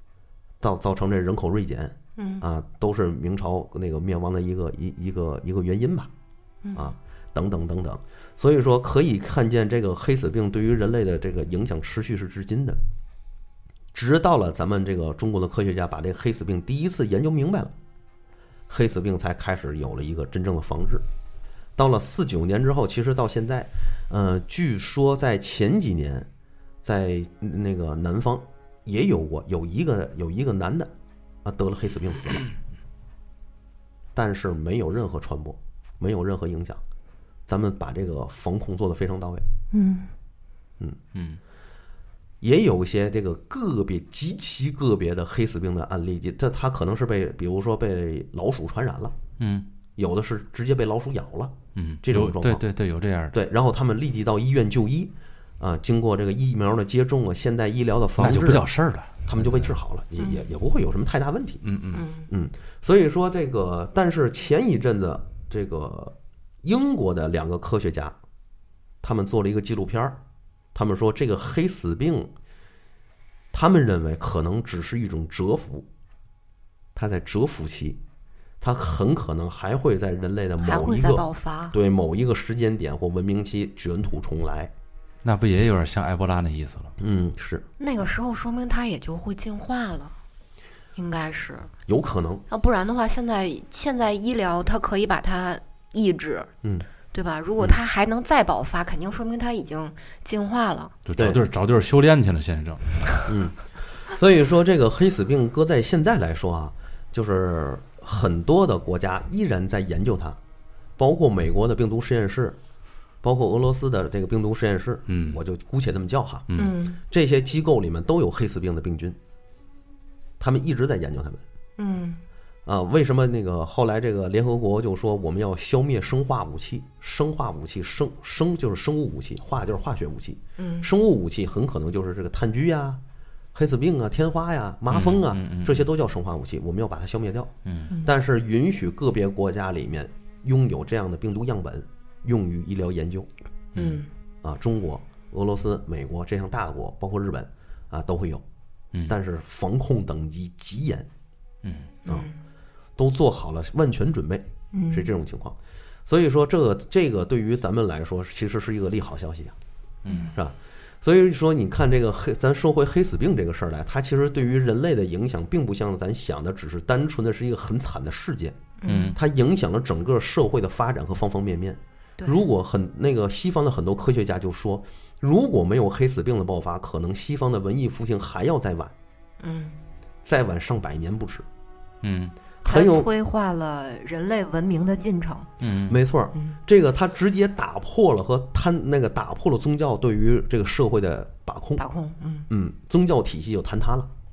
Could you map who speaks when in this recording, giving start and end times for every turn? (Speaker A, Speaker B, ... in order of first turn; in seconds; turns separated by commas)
Speaker A: 0.6-6.1, Speaker B: 2.2-2.4, Speaker B: 6.6-6.9, Speaker A: 6.7-12.8, Speaker A: 13.9-17.7, Speaker A: 18.7-21.0, Speaker A: 21.8-26.3, Speaker A: 26.8-30.9, Speaker A: 31.4-32.5, Speaker A: 34.1-36.8, Speaker A: 37.5-39.4, Speaker B: 39.7-40.1, Speaker C: 41.1-41.4, Speaker A: 42.4-49.1, Speaker C: 49.4-49.7, Speaker A: 50.0-52.6, Speaker C: 51.7-53.4, Speaker A: 53.3-58.7, Speaker C: 58.2-59.7, Speaker A: 59.2-61.6, Speaker B: 60.2-60.4, Speaker C: 61.6-62.0, Speaker B: 61.9-62.3, Speaker A: 62.3-68.2, Speaker A: 69.0-70.2, Speaker A: 70.7-72.3, Speaker A: 73.5-75.9, Speaker A: 76.9-78.0, Speaker A: 78.6-84.7, Speaker B: 80.6-81.8, Speaker C: 85.2-87.0, Speaker A: 87.0-87.7, Speaker B: 87.8-90.2, Speaker B: 91.0-91.7, Speaker A: 91.9-92.4, Speaker B: 92.5-96.5, Speaker B: 97.1-101.0, Speaker C: 101.0-103.3, Speaker A: 103.3-110.4, Speaker A: 111.0-112.6, Speaker A: 113.2-116.5, Speaker C: 115.1-115.4, Speaker C: 116.5-116.8, Speaker B: 116.5-117.0, Speaker A: 117.1-119.2, Speaker A: 120.4-121.4, Speaker B: 121.8-122.2, Speaker A: 122.7-133.0, Speaker B: 130.6-130.9, Speaker A: 133.5-137.5, Speaker C: 134.9-135.9, Speaker C: 137.6-137.9, Speaker A: 138.0-143.3, Speaker C: 143.7-144.0, Speaker B: 143.7-144.1, Speaker A: 144.4-148.4, Speaker A: 149.1-151.1, Speaker C: 151.6-151.9, Speaker B: 152.0-152.3, Speaker A: 153.0-159.6, Speaker B: 154.7-155.1, Speaker C: 160.0-160.3, Speaker B: 160.1-160.3, Speaker A: 160.3-168.6, Speaker B: 168.8-169.2, Speaker C: 168.8-169.2, Speaker A: 169.1-178.9, Speaker B: 172.2-172.4, Speaker B: 179.4-179.8, Speaker A: 180.2-181.4, Speaker C: 182.0-182.3, Speaker B: 182.6-185.5, Speaker A: 182.7-183.1, Speaker C: 185.6-186.0, Speaker A: 185.9-191.8, Speaker B: 191.8-192.5, Speaker A: 192.5-194.1